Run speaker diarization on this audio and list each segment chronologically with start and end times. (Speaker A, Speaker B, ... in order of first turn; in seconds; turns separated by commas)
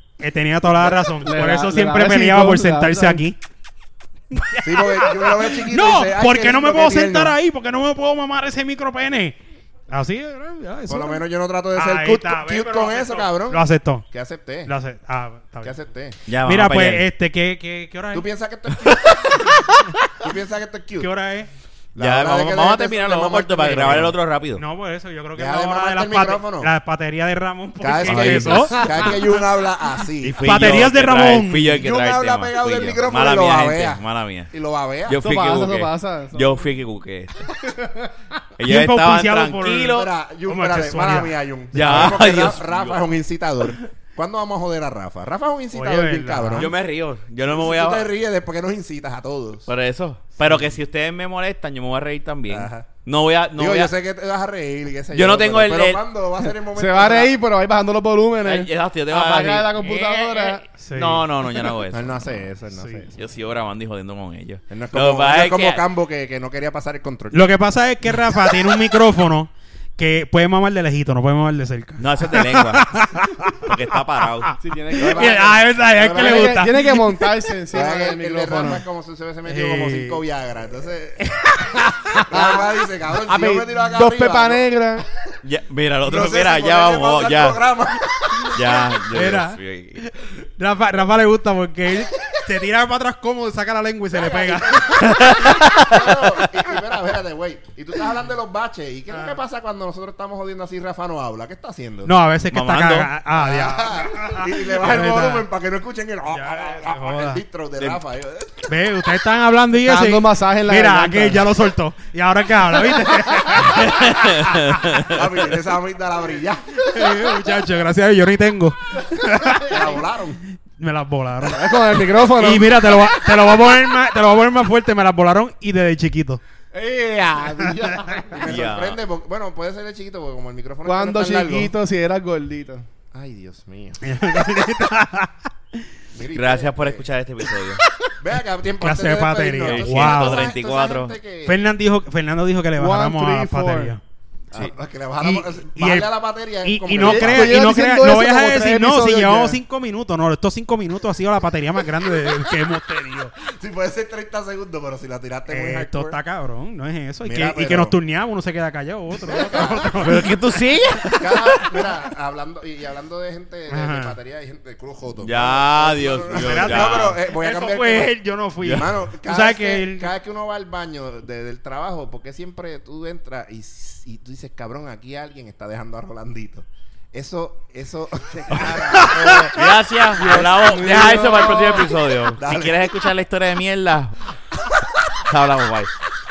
Speaker A: 0.2-3.4, Speaker B: 1.1-3.2, Speaker A: 4.3-9.4, Speaker C: 4.6-7.3, Speaker A: 9.9-14.0, Speaker C: 10.9-14.7, Speaker A: 14.6-15.8, Speaker C: 15.6-16.2, Speaker D: 16.3-17.1, Speaker A: 16.4-18.3, Speaker C: 18.1-19.6, Speaker D: 18.7-20.1, Speaker C: 20.2-21.1, Speaker A: 21.0-21.5, Speaker C: 21.9-24.1, Speaker D: 21.9-24.6, Speaker A: 24.6-29.4, Speaker C: 25.3-26.7, Speaker C: 27.8-30.7, Speaker D: 28.0-29.1, Speaker D: 30.2-34.5, Speaker A: 30.4-31.8, Speaker C: 31.7-35.2, Speaker D: 35.1-37.5, Speaker B: 35.2-36.7, Speaker B: 37.5-38.1, Speaker D: 38.6-40.1, Speaker A: 38.6-41.3, Speaker C: 39.9-46.7, Speaker D: 41.7-43.0, Speaker A: 45.7-46.7, Speaker D: 46.5-48.1, Speaker C: 47.4-49.7, Speaker D: 49.7-53.9, Speaker C: 50.4-50.7, Speaker C: 52.5-52.9, Speaker C: 53.5-57.3, Speaker D: 55.1-56.0, Speaker B: 56.7-60.6, Speaker D: 58.4-62.3, Speaker A: 60.8-61.2, Speaker C: 61.9-63.2, Speaker A: 62.7-63.0, Speaker D: 63.2-65.8, Speaker C: 64.7-67.4, Speaker A: 67.3-73.7, Speaker D: 72.0-72.9, Speaker D: 73.6-74.5, Speaker A: 74.4-77.2, Speaker B: 74.6-75.5, Speaker C: 75.0-76.7, Speaker B: 76.0-78.8, Speaker C: 77.7-84.7, Speaker A: 79.5-80.2, Speaker A: 81.3-82.3, Speaker B: 82.3-82.7, Speaker B: 83.2-85.0, Speaker D: 85.4-87.6, Speaker C: 86.0-88.8, Speaker D: 88.5-90.1, Speaker A: 89.1-95.8, Speaker C: 94.1-102.2, Speaker D: 95.0-96.2, Speaker A: 102.0-105.4, Speaker D: 102.5-103.1, Speaker C: 103.3-108.7, Speaker A: 106.3-107.4, Speaker A: 108.7-115.1, Speaker B: 109.8-111.5, Speaker D: 113.7-115.2, Speaker C: 115.0-117.3, Speaker A: 116.8-119.9, Speaker C: 119.7-120.4, Speaker A: 120.8-126.4, Speaker B: 121.5-122.8, Speaker B: 126.7-128.4, Speaker A: 127.7-128.1, Speaker C: 128.1-131.7, Speaker D: 128.4-129.0, Speaker B: 130.8-132.9, Speaker C: 133.1-134.0, Speaker A: 134.0-135.3, Speaker C: 136.1-137.0, Speaker D: 136.3-137.8, Speaker C: 138.2-141.6, Speaker A: 138.8-140.5, Speaker D: 139.6-141.1, Speaker A: 141.4-144.0, Speaker B: 142.8-143.9, Speaker C: 144.5-147.6, Speaker A: 145.2-146.1, Speaker A: 146.6-153.3, Speaker B: 147.0-149.6, Speaker C: 153.4-156.2, Speaker A: 155.5-160.3, Speaker C: 157.2-158.0, Speaker C: 159.2-160.0, Speaker D: 160.0-161.6, Speaker C: 161.2-168.2, Speaker A: 163.7-164.2, Speaker D: 165.2-167.2, Speaker A: 166.3-170.1, Speaker D: 168.6-168.9, Speaker C: 168.7-179.6, Speaker A: 178.9-179.7, Speaker D: 179.5-184.2, Speaker B: 180.2-181.9, Speaker C: 182.3-183.0, Speaker D: 185.2-185.9